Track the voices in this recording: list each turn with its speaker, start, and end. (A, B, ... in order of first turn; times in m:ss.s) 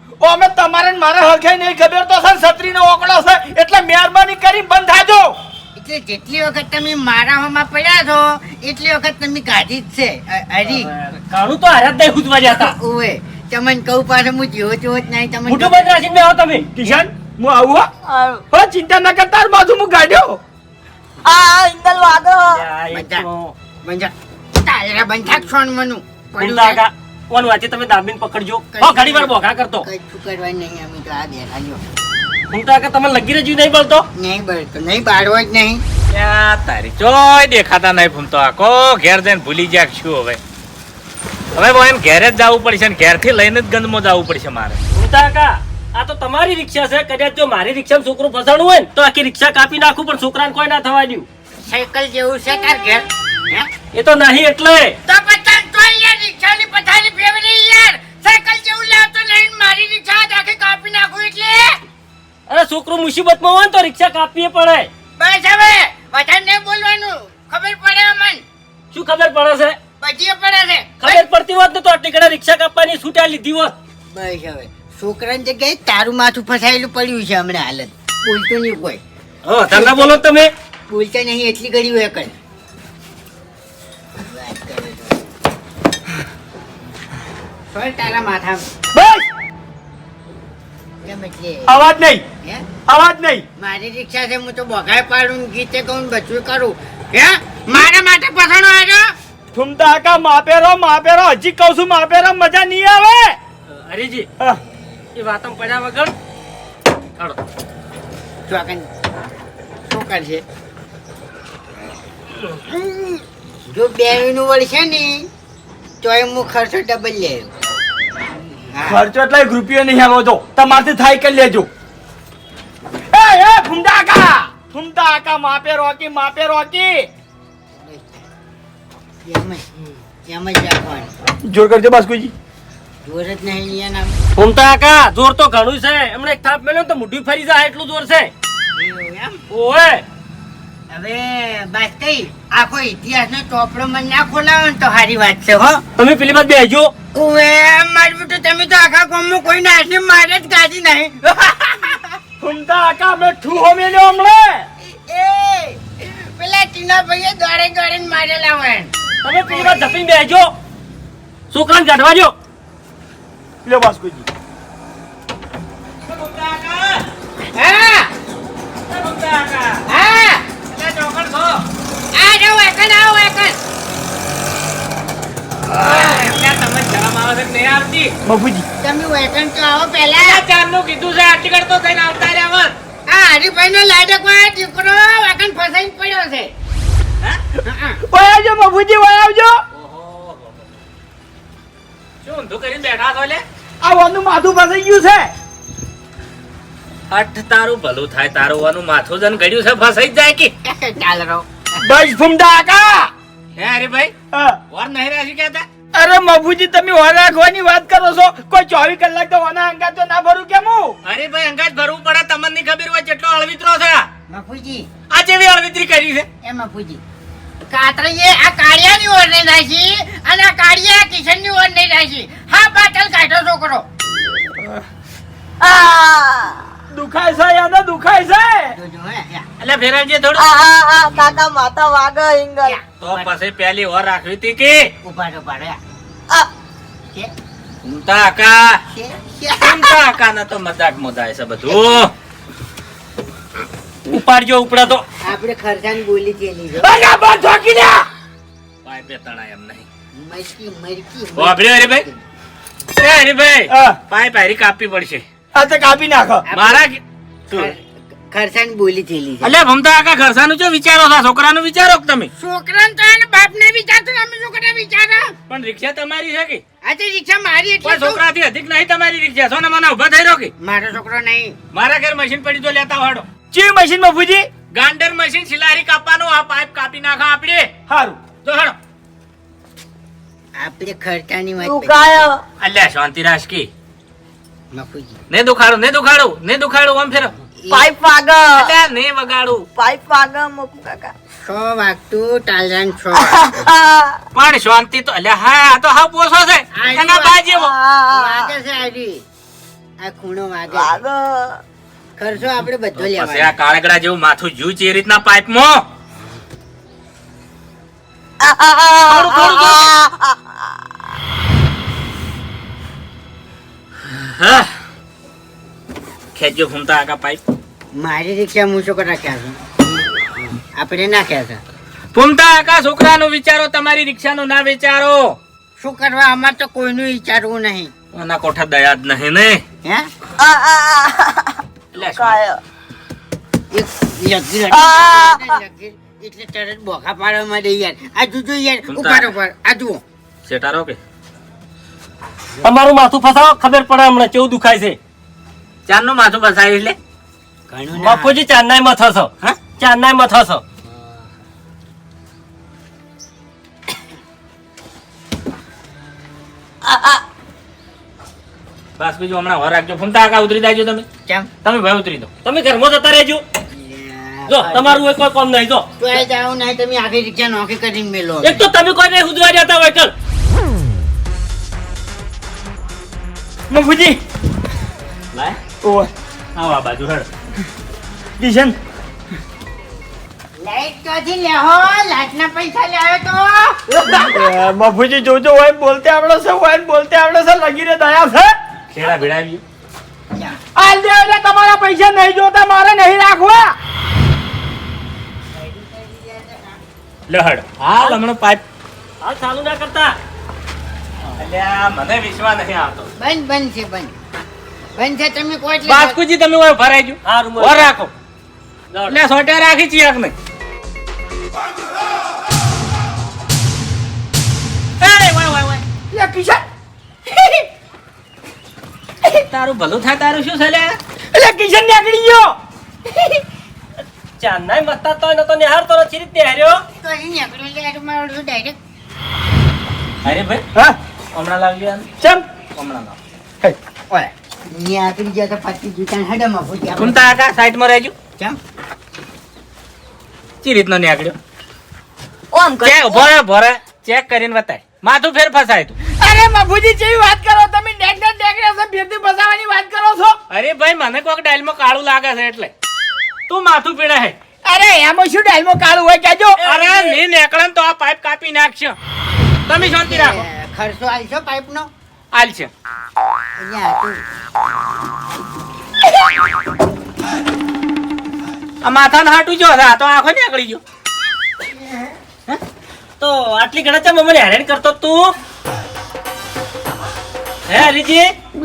0:00.2-0:05.4 A
0:05.8-0:10.9 B
0:10.6-0:12.8 C
0:12.5-0:16.0 B
0:15.5-0:16.7 C
0:16.8-0:17.9 A
0:18.1-0:18.4 D
0:18.5-0:20.4 A
0:21.2-0:22.6 D
0:22.5-0:23.5 C
0:22.9-0:23.3 B
0:23.8-0:26.8 B
0:26.4-0:29.9 C
0:28.7-0:31.8 B
0:32.5-0:34.1 C
0:34.2-0:35.8 B
0:36.1-0:40.4 E
0:41.6-0:44.8 E
0:44.9-0:51.3 C
0:51.6-0:53.7 B
0:53.9-0:55.0 C
0:55.1-1:01.8 B
1:02.5-1:04.9 C
1:05.2-1:08.4 B
1:08.9-1:09.8 C
1:10.0-1:11.2 B
1:11.0-1:13.7 C
1:14.1-1:19.0 B
1:19.4-1:20.5 C
1:19.7-1:20.2 B
1:20.9-1:22.4 B
1:24.3-1:25.2 B
1:27.7-1:28.6 B
1:28.9-1:29.3 A
1:31.0-1:31.8 B
1:31.7-1:32.2 A
1:32.9-1:33.4 A
1:33.6-1:39.1 B
1:39.5-1:43.4 A
1:43.7-1:44.3 C
1:45.2-1:46.1 C
1:48.5-1:48.9 B
1:49.9-1:50.4 B
1:52.7-1:55.3 B
1:56.0-1:57.5 B
1:58.7-1:59.0 B
1:58.9-2:01.7 A
2:03.1-2:07.1 A
2:07.8-2:08.3 B
2:09.2-2:09.7 B
2:10.3-2:11.1 B
2:11.4-2:12.3 A
2:13.0-2:14.2 B
2:14.4-2:18.3 C
2:18.7-2:19.4 B
2:19.5-2:20.0 C
2:20.9-2:25.8 B
2:26.0-2:26.9 C
2:27.1-2:32.2 B
2:32.4-2:34.6 A
2:34.8-2:38.9 B
2:39.2-2:40.5 C
2:39.5-2:39.8 B
2:41.5-2:42.3 C
2:43.6-2:44.3 A
2:46.0-2:47.0 E
2:47.6-2:48.1 B
2:48.9-2:49.9 E
2:49.9-2:50.4 B
2:50.7-2:51.7 E
2:52.1-2:53.6 B
2:55.8-2:58.1 E
2:58.2-2:58.7 A
2:58.8-3:00.4 B
3:00.2-3:02.8 E
3:03.1-3:06.5 B
3:07.6-3:08.0 B
3:08.1-3:09.6 A
3:09.7-3:10.6 E
3:12.2-3:13.4 E
3:13.8-3:15.3 A
3:17.1-3:20.5 E
3:20.6-3:21.8 B
3:21.8-3:23.1 A
3:23.6-3:24.1 E
3:24.3-3:24.6 A
3:24.7-3:25.7 E
3:25.9-3:31.0 A
3:31.0-3:34.1 E
3:34.3-3:34.9 B
3:35.1-3:36.3 E
3:36.4-3:37.0 B
3:37.7-3:43.8 B
3:45.6-3:46.7 D
3:46.9-3:48.8 A
3:48.8-3:49.5 B
3:49.6-3:50.4 E
3:50.4-3:52.8 D
3:52.7-3:53.3 B
3:53.0-3:54.9 E
3:55.0-3:55.8 B
3:57.8-3:58.8 E
3:58.9-4:00.0 B
3:59.6-4:02.1 E
4:01.7-4:02.0 B
4:04.1-4:05.0 C
4:05.2-4:07.0 B
4:06.8-4:08.1 A
4:08.8-4:09.8 E
4:10.1-4:12.2 B
4:11.4-4:12.0 E
4:13.0-4:15.2 E
4:13.7-4:14.0 A
4:15.5-4:16.5 A
4:16.5-4:16.8 B
4:16.5-4:17.0 E
4:17.5-4:19.5 B
4:19.4-4:22.3 E
4:22.4-4:25.3 B
4:25.5-4:26.6 E
4:26.8-4:28.2 B
4:27.8-4:30.5 E
4:30.6-4:31.6 B
4:31.7-4:33.3 E
4:33.5-4:34.5 A
4:34.7-4:37.7 E
4:37.9-4:38.2 A
4:38.4-4:38.8 E
4:40.6-4:42.2 B
4:41.6-4:42.4 D
4:42.6-4:43.7 E
4:44.7-4:45.2 B
4:45.3-4:47.3 E
4:47.6-4:47.9 B
4:47.7-4:48.7 D
4:48.6-4:49.7 E
4:49.8-4:51.1 D
4:51.5-4:53.7 B
4:53.1-4:54.2 D
4:54.4-4:57.7 E
4:56.7-4:57.4 B
4:57.5-4:58.5 D
4:58.1-4:59.2 B
5:00.0-5:01.0 B
5:00.7-5:01.6 D
5:02.2-5:03.5 B
5:03.0-5:05.8 E
5:08.4-5:10.8 D
5:09.1-5:09.9 E
5:14.0-5:14.7 E
5:16.4-5:17.4 E
5:17.9-5:19.6 B
5:20.8-5:21.6 B
5:22.1-5:25.4 E
5:25.8-5:27.9 B
5:28.1-5:29.6 E
5:29.8-5:30.1 B
5:30.4-5:32.6 D
5:31.9-5:32.4 E
5:33.7-5:40.0 B
5:34.7-5:35.6 D
5:38.9-5:39.4 E
5:40.5-5:41.0 E
5:42.6-5:45.0 C
5:45.9-5:47.0 E
5:47.7-5:48.4 B
5:48.0-5:50.6 C
5:56.8-5:57.2 D
5:59.0-6:01.1 E
6:01.6-6:02.3 E
6:02.4-6:03.4 C
6:03.7-6:05.0 B
6:04.5-6:05.9 C
6:06.0-6:08.6 B
6:08.4-6:10.1 C
6:13.7-6:14.2 A
6:15.8-6:16.1 A
6:16.6-6:17.3 E
6:18.4-6:18.8 A
6:20.6-6:24.1 B
6:23.9-6:28.5 A
6:28.9-6:29.6 E
6:30.8-6:33.7 A
6:35.5-6:36.8 B
6:37.3-6:38.6 E
6:39.2-6:40.1 C
6:41.4-6:43.1 E
6:43.2-6:44.1 B
6:45.0-6:46.2 B
6:45.8-6:48.1 E
6:47.2-6:48.0 C
6:48.9-6:49.2 C
6:49.1-6:50.3 E
6:55.0-6:55.8 E
6:56.1-6:56.6 A
6:57.3-6:57.6 A
6:59.3-7:01.0 E
7:01.3-7:02.5 A
7:04.4-7:06.8 C
7:07.0-7:08.8 B
7:10.2-7:10.6 E
7:11.3-7:12.1 E
7:12.8-7:13.2 E
7:14.1-7:17.3 B
7:17.0-7:18.1 E
7:20.6-7:21.4 E
7:22.5-7:23.3 D
7:22.8-7:26.0 E
7:26.2-7:30.4 A
7:30.5-7:32.7 E
7:33.5-7:34.4 E
7:34.6-7:36.6 A
7:36.6-7:37.2 C
7:36.6-7:39.0 E
7:39.7-7:40.4 E
7:39.8-7:41.9 B
7:42.3-7:42.7 E
7:43.6-7:44.2 B
7:48.8-7:50.8 E
7:53.2-7:55.4 C
7:57.7-7:58.3 C